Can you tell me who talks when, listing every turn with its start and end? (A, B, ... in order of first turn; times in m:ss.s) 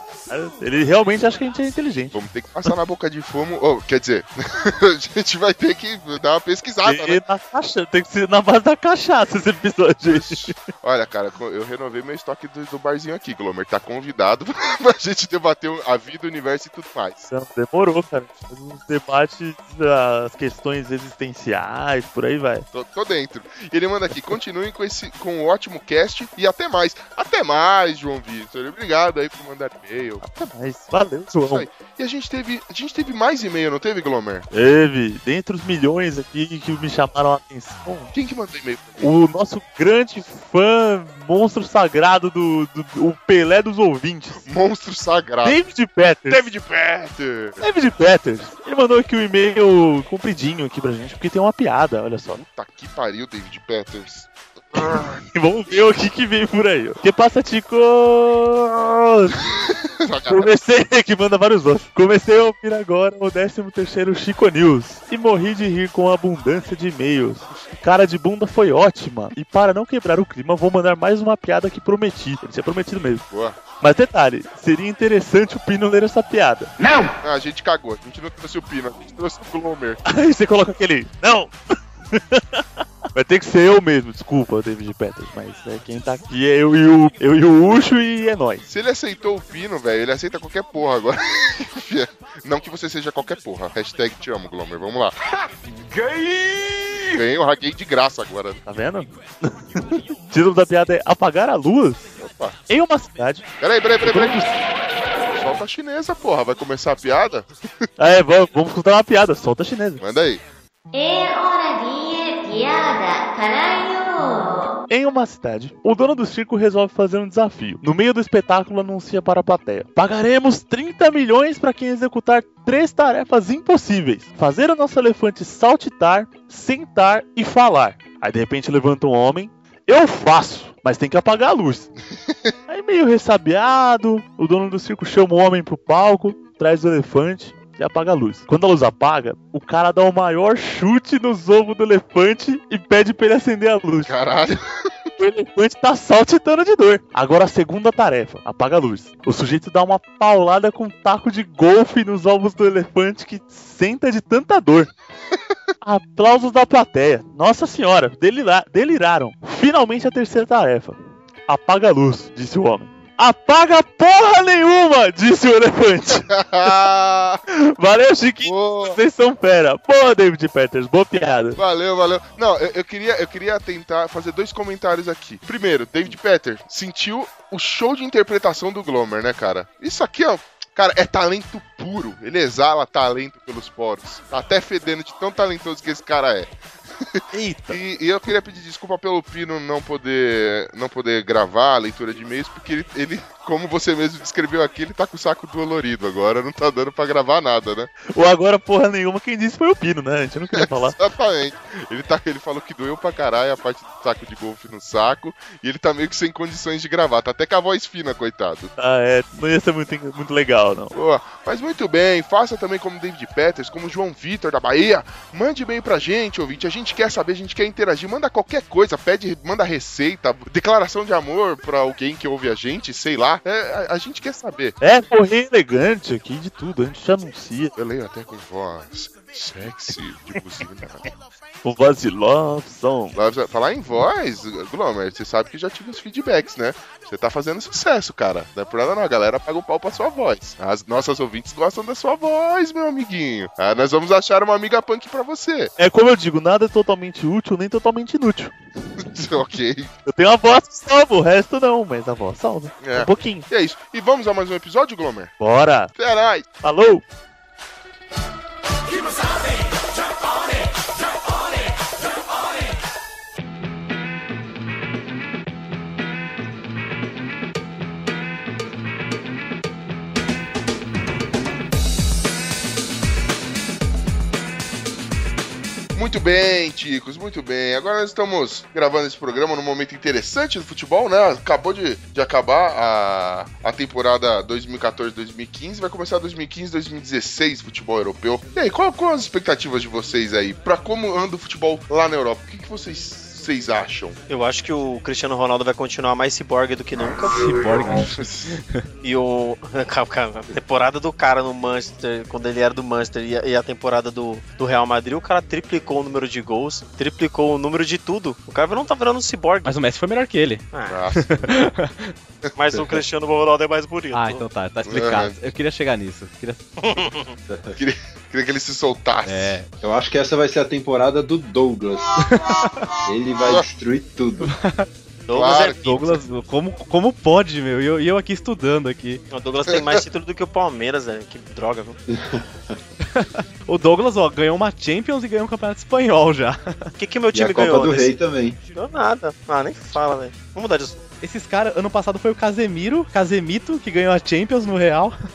0:00.3-0:02.7 A
0:02.1-0:07.2 B
0:06.8-0:10.6 A
0:10.1-0:17.3 B
0:17.3-0:22.6 A
0:22.7-0:30.2 B
0:30.2-0:31.7 A
0:31.3-0:34.5 B
0:34.5-0:38.1 A
0:38.1-0:39.1 B
0:39.0-0:44.4 A
0:44.4-0:45.6 B
0:45.4-0:46.4 A
0:46.3-0:47.6 B
0:47.6-0:52.4 A
0:52.3-0:54.3 B
0:54.8-0:59.5 A
0:59.5-1:00.5 B
1:00.3-1:13.2 A
1:13.3-1:13.6 B
1:13.8-1:16.7 A
1:17.2-1:20.0 B
1:20.0-1:21.5 A
1:22.1-1:28.6 A
1:28.6-1:35.2 B
1:37.1-1:38.6 B
1:38.6-1:42.1 A
1:42.2-1:42.6 B
1:42.7-1:43.5 A
1:43.6-1:44.5 B
1:44.0-1:44.5 A
1:45.3-1:47.9 B
1:48.0-1:50.0 A
1:50.0-1:50.4 B
1:50.9-1:54.7 C
1:54.9-2:11.9 A
2:12.7-2:24.1 A
2:24.0-2:25.1 B
2:25.2-2:34.9 A
2:35.8-2:46.7 A
2:46.1-2:47.4 B
2:47.5-2:51.6 A
2:48.4-2:49.0 B
2:51.6-3:17.9 B
3:18.1-3:21.0 A
3:20.6-3:28.7 B
3:28.8-3:30.9 A
3:30.9-3:44.8 B
3:44.8-3:47.7 A
3:47.8-3:51.1 B
3:51.6-3:53.2 A
3:53.1-4:05.7 B
4:05.8-4:08.5 A
4:09.0-4:09.9 B
4:10.0-4:13.5 A
4:12.8-4:15.3 B
4:15.4-4:15.9 A
4:16.0-4:16.5 B
4:16.6-4:17.0 A
4:35.9-4:54.2 B
4:54.3-4:57.4 D
4:57.3-4:58.8 E
4:59.0-5:09.8 D
5:09.6-5:10.6 E
5:10.7-5:11.0 D
5:10.9-5:11.6 B
5:11.1-5:12.1 E
5:12.6-5:14.4 D
5:14.1-5:16.6 E
5:14.8-5:15.4 B
5:16.8-5:17.3 D
5:17.5-5:17.8 F
5:17.8-5:19.6 B
5:19.2-5:19.7 E
5:19.8-5:22.2 F
5:23.0-5:24.5 F
5:24.4-5:24.9 E
5:25.3-5:26.0 D
5:25.3-5:26.0 B
5:25.8-5:29.2 E
5:29.3-5:32.0 D
5:32.1-5:32.7 F
5:33.1-5:36.9 E
5:37.0-5:38.2 D
5:37.3-5:38.6 F
5:38.7-5:41.0 D
5:41.2-5:45.2 E